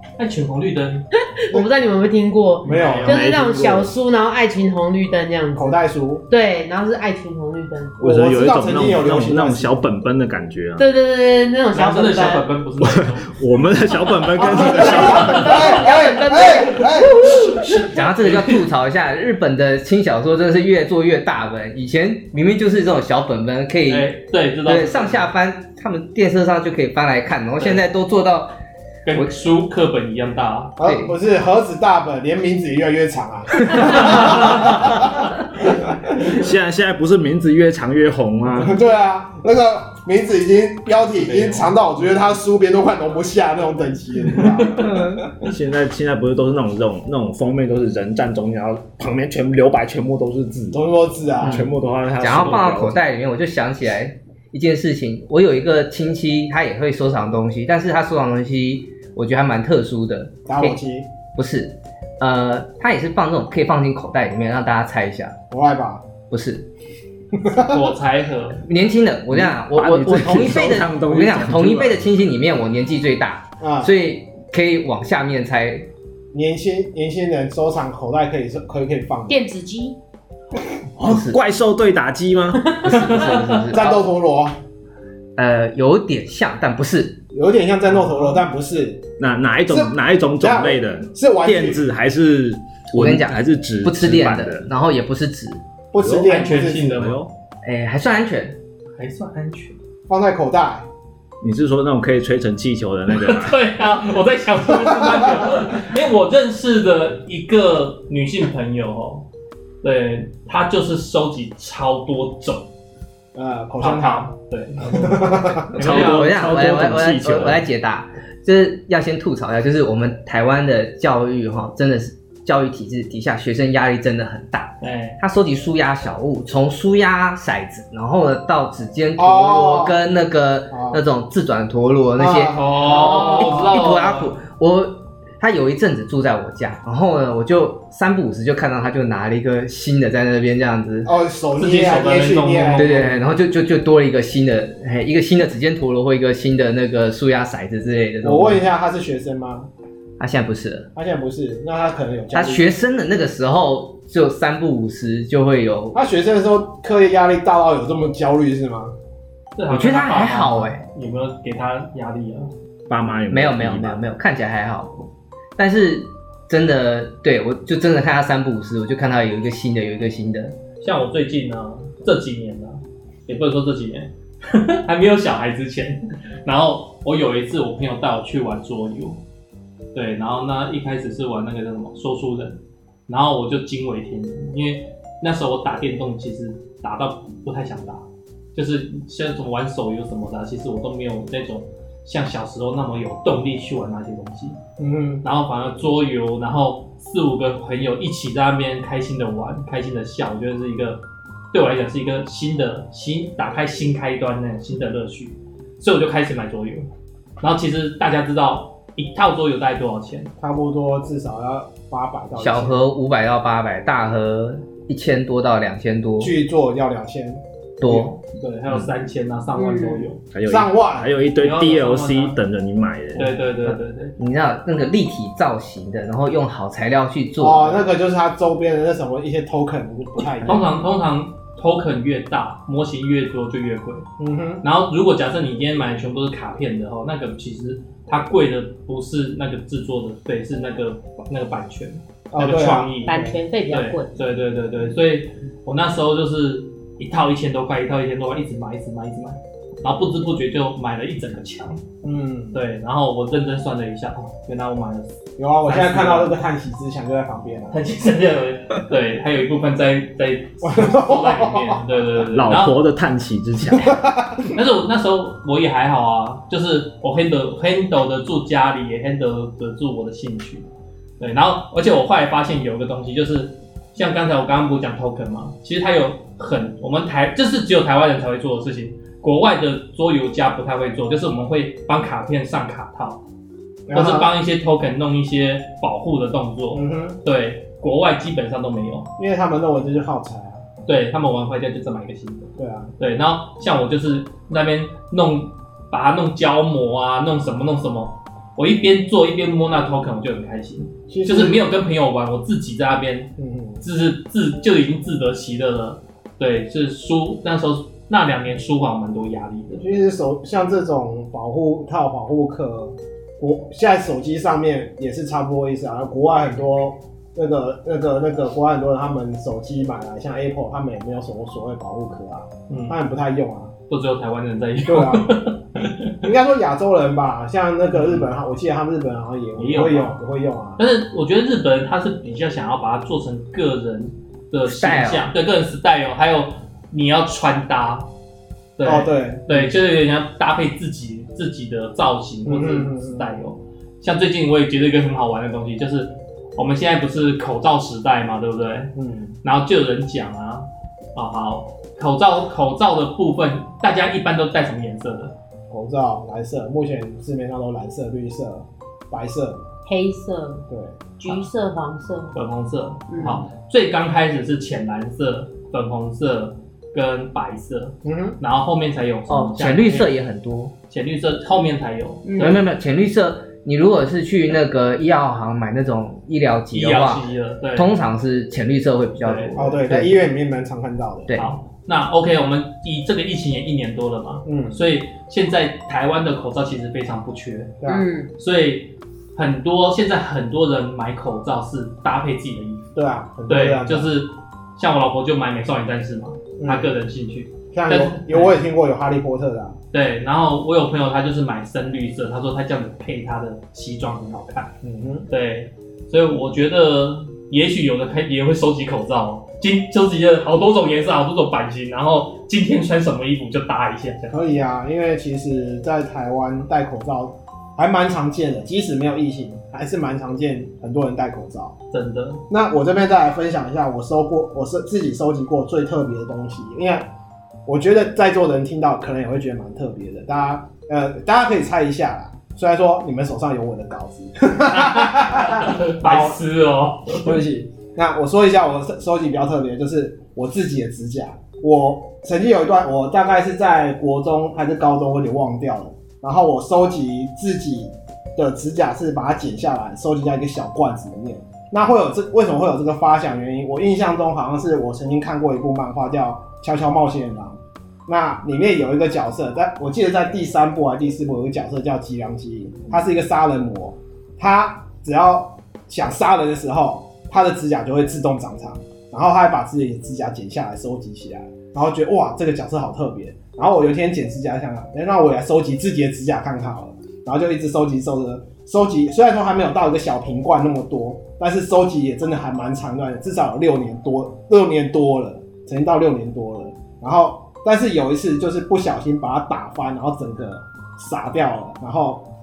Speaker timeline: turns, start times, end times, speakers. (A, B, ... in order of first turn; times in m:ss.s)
0:00.2-0:01.1 A
0:01.3-0:08.0 B
0:02.6-0:03.2 A
0:02.6-0:03.2 C
0:03.0-0:03.9 D
0:05.6-0:06.2 C
0:08.0-0:10.8 D
0:08.0-0:09.8 C
0:10.8-0:12.4 B
0:11.7-0:13.4 A
0:12.8-0:15.7 D
0:14.5-0:17.8 B
0:14.5-0:17.8 C
0:15.0-0:15.6 A
0:17.8-0:28.5 E
0:18.0-0:18.6 A
0:23.9-0:25.3 A
0:27.6-0:27.8 A
0:29.0-0:30.8 A
0:30.8-0:36.0 C
0:30.8-0:31.2 E
0:33.8-0:34.5 A
0:34.6-0:35.1 D
0:36.2-0:38.8 D
0:38.6-0:45.0 C
0:41.2-0:41.7 A
0:44.4-0:44.8 A
0:44.7-0:45.3 E
0:45.3-0:50.8 D
0:50.7-0:51.7 C
0:51.4-0:53.0 D
0:51.4-1:00.8 E
1:00.5-1:01.1 C
1:01.3-1:05.4 E
1:05.5-1:06.0 C
1:06.3-1:06.6 E
1:07.3-1:07.9 C
1:07.5-1:08.6 A
1:08.6-1:15.9 E
1:09.3-1:12.1 D
1:13.6-1:13.9 C
1:16.3-1:19.4 C
1:19.3-1:20.0 B
1:21.0-1:22.8 D
1:21.0-1:21.4 E
1:22.8-1:24.1 E
1:22.9-1:23.6 A
1:23.6-1:24.6 C
1:25.4-1:27.2 E
1:27.3-1:29.1 C
1:28.0-1:28.4 A
1:29.2-1:34.7 D
1:29.7-1:31.8 C
1:32.9-1:35.6 E
1:35.9-1:37.1 C
1:36.0-1:37.3 D
1:36.2-1:37.2 A
1:37.6-1:38.6 E
1:39.0-1:39.8 A
1:40.1-1:40.9 C
1:41.4-1:43.6 D
1:43.1-1:49.2 A
1:44.8-1:45.4 C
1:49.8-1:52.7 A
1:53.3-1:54.3 C
1:53.8-1:56.4 A
1:54.8-1:55.8 C
1:55.8-1:57.6 D
1:55.8-2:12.6 E
2:04.8-2:05.2 A
2:09.2-2:10.0 C
2:10.7-2:11.0 C
2:12.2-2:13.8 C
2:12.5-2:14.3 A
2:13.1-2:21.1 E
2:21.0-2:23.2 C
2:21.6-2:23.0 A
2:22.7-2:28.6 E
2:28.2-2:29.7 C
2:30.2-2:30.9 E
2:30.9-2:32.7 C
2:32.3-2:36.0 E
2:35.9-2:38.9 C
2:39.6-2:42.5 A
2:39.7-2:40.8 E
2:42.9-2:44.0 D
2:43.3-2:50.6 E
2:50.8-2:59.2 A
2:59.9-3:14.6 A
3:14.8-3:15.2 C
3:15.2-3:26.9 A
3:27.4-3:30.3 A
3:30.4-3:32.8 C
3:32.4-3:36.3 E
3:36.2-3:38.1 C
3:37.8-3:38.1 E
3:38.3-3:40.2 A
3:39.6-3:40.1 B
3:40.3-3:43.4 D
3:40.4-3:41.1 C
3:41.4-3:42.4 A
3:43.1-3:44.1 A
3:44.2-3:47.8 E
3:47.4-3:50.6 C
3:50.4-3:54.0 A
3:54.2-3:54.6 C
3:54.6-4:11.8 A
4:02.3-4:03.4 C
4:03.0-4:04.1 B
4:12.0-4:12.6 C
4:12.5-4:16.3 A
4:15.4-4:17.8 C
4:17.7-4:22.7 A
4:20.6-4:21.8 C
4:22.3-4:24.0 D
4:23.7-4:24.5 C
4:24.5-4:30.7 A
4:31.2-4:43.2 A
4:43.9-4:44.3 C
4:43.9-4:49.1 A
4:46.7-4:47.2 C
4:49.2-4:50.6 C
4:50.8-5:09.8 A
4:52.6-4:52.9 C
5:01.1-5:01.6 C
5:03.4-5:03.8 C
5:09.7-5:23.7 C
5:22.7-5:23.0 A
5:23.9-5:26.2 A
5:24.8-5:25.4 C
5:26.2-5:30.8 C
5:27.9-5:28.3 A
5:29.6-5:30.2 A
5:30.8-5:38.1 A
5:34.6-5:35.3 E
5:38.8-5:55.3 A
5:38.8-5:39.8 C
5:42.4-5:43.3 C
5:49.0-5:49.3 C
5:55.7-5:59.6 C
5:59.8-6:00.6 B
6:00.7-6:01.0 C
6:01.2-6:02.3 B
6:02.3-6:10.1 A
6:03.1-6:03.4 B
6:08.0-6:08.4 C
6:09.3-6:10.7 E
6:10.9-6:12.6 A
6:12.2-6:12.6 B
6:12.4-6:17.2 E
6:16.7-6:17.9 A
6:17.8-6:20.1 E
6:19.2-6:19.6 A
6:19.6-6:21.3 C
6:21.3-6:21.5 E
6:21.4-6:27.8 A
6:24.4-6:24.8 C
6:27.8-6:28.0 C
6:27.9-6:28.3 B
6:28.4-6:32.9 A
6:32.9-6:34.1 C
6:33.5-6:38.6 A
6:36.6-6:36.9 C
6:37.7-6:39.8 C
6:39.9-6:44.8 A
6:44.8-6:45.3 C
6:45.3-6:54.4 A
6:54.3-7:01.8 C
7:01.9-7:02.4 A
7:02.5-7:07.1 C
7:07.6-7:16.4 C
7:14.7-7:17.4 A
7:17.1-8:12.3 C